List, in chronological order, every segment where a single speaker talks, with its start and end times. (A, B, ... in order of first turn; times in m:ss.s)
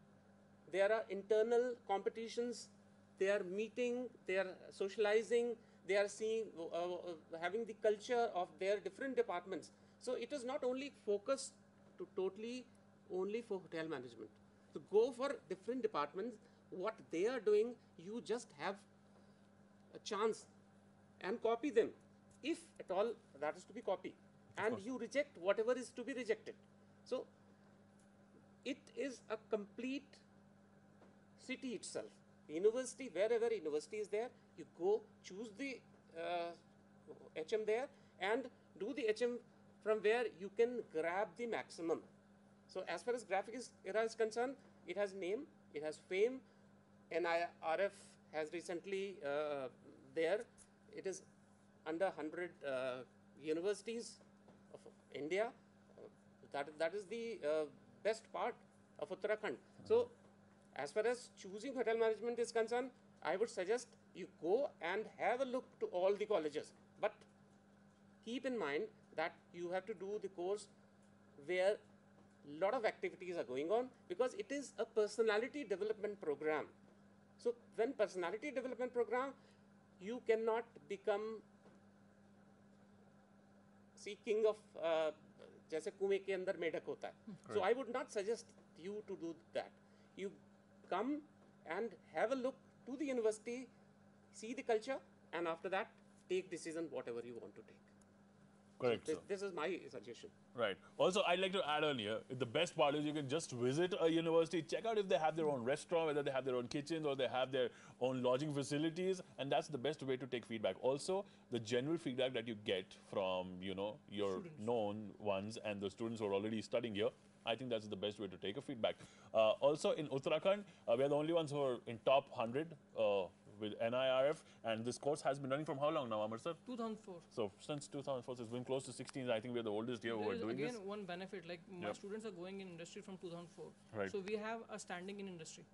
0:00.7-0:18.8 A
0:19.9-0:20.5 A
0:21.2-0:27.3 A
0:28.6-0:30.2 A
0:31.4-0:42.1 A
0:42.7-0:46.4 A
0:47.1-0:51.2 A
0:51.8-1:00.1 A
1:00.8-1:07.2 A
1:08.2-1:10.7 A
1:11.4-1:11.8 A
1:12.4-1:16.7 A
1:17.4-1:19.4 A
1:20.0-1:21.4 A
1:24.0-1:30.4 A
1:30.9-1:33.7 A
1:34.3-1:37.9 A
1:38.8-1:39.2 B
1:38.8-1:40.4 A
1:40.5-2:06.6 B
1:54.4-1:54.6 C
2:06.7-2:07.2 C
2:07.3-2:10.8 B
2:10.1-2:15.7 C